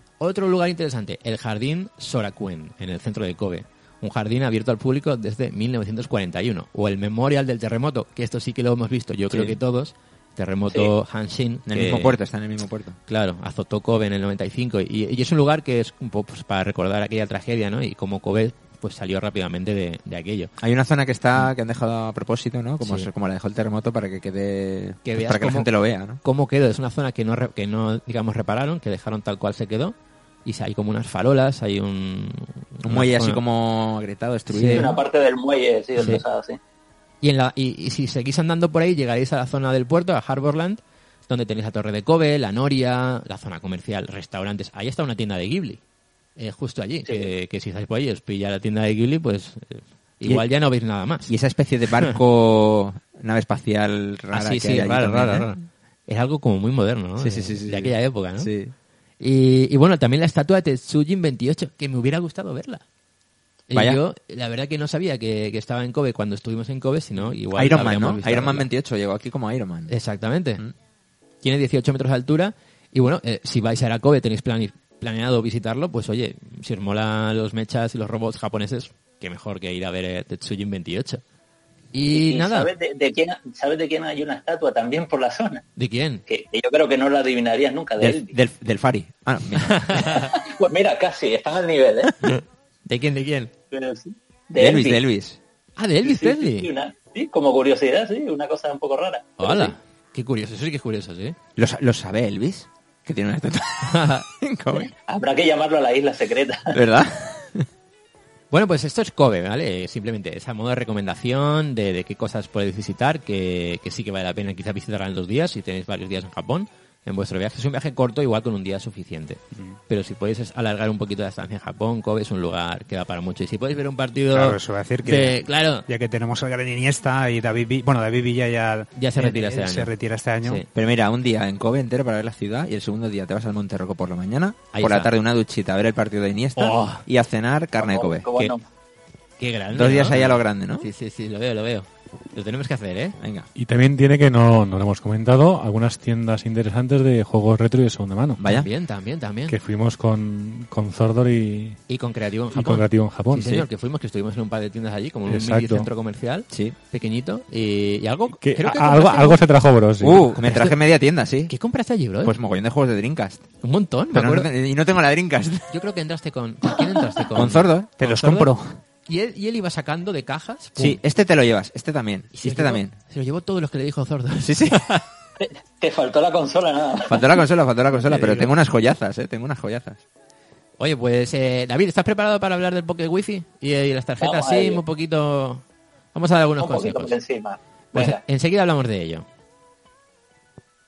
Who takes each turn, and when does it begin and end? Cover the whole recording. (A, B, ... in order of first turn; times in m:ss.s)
0:00.2-0:12.2 A
0:09.3-0:09.6 B
0:11.7-0:13.0 B
0:13.1-0:20.5 A
0:20.6-0:26.2 B
0:22.8-0:23.1 A
0:25.0-0:33.4 A
0:32.8-0:35.0 B
0:34.5-0:34.9 A
0:34.7-0:36.6 C
0:36.0-0:36.2 A
0:37.2-0:45.8 A
0:46.4-0:51.3 A
0:51.2-0:55.5 B
0:54.3-0:58.5 A
0:57.2-0:58.7 B
0:59.2-1:02.8 A
1:03.7-1:08.7 A
1:03.7-1:04.0 B
1:07.2-1:09.9 B
1:09.9-1:10.6 A
1:11.4-1:21.2 A
1:21.9-1:22.7 A
1:22.1-1:25.6 C
1:25.8-1:26.2 A
1:26.3-1:28.3 C
1:28.0-1:29.8 B
1:29.6-1:30.3 A
1:29.9-1:32.3 C
1:32.8-1:33.5 A
1:33.7-1:35.0 C
1:34.5-1:35.4 B
1:35.8-1:36.7 A
1:36.0-1:39.7 C
1:39.4-1:41.4 A
1:41.6-1:44.9 B
1:43.8-1:44.2 A
1:44.7-1:46.8 C
1:46.7-1:47.7 B
1:48.5-2:05.9 A
2:04.3-2:10.6 D
2:09.0-2:09.9 A
2:10.7-2:18.3 B
2:14.7-2:15.1 A
2:16.6-2:17.0 A
2:17.8-2:18.6 C
2:19.4-2:23.2 A
2:19.7-2:20.9 B
2:23.2-2:23.5 B
2:23.6-2:28.4 E
2:28.4-2:28.7 B
2:28.4-2:29.6 A
2:29.5-2:31.8 E
2:31.9-2:39.4 A
2:32.5-2:33.5 E
2:33.3-2:33.7 B
2:35.3-2:35.9 E
2:36.5-2:36.7 B
2:38.4-2:40.3 E
2:40.0-2:41.5 B
2:40.0-2:40.8 A
2:41.5-2:42.3 A
2:42.2-2:43.4 B
2:43.6-2:44.5 A
2:44.1-2:45.7 B
2:45.7-2:48.5 A
2:47.3-2:47.9 B
2:48.0-2:48.7 D
2:49.1-2:51.0 A
2:50.8-2:52.9 B
2:52.3-2:55.0 A
2:54.4-2:54.8 B
2:55.4-2:57.3 C
2:57.1-3:00.0 B
2:57.9-2:58.5 A
3:00.8-3:05.6 A
3:04.2-3:04.8 C
3:06.1-3:07.1 A
3:06.6-3:08.2 C
3:07.9-3:09.2 A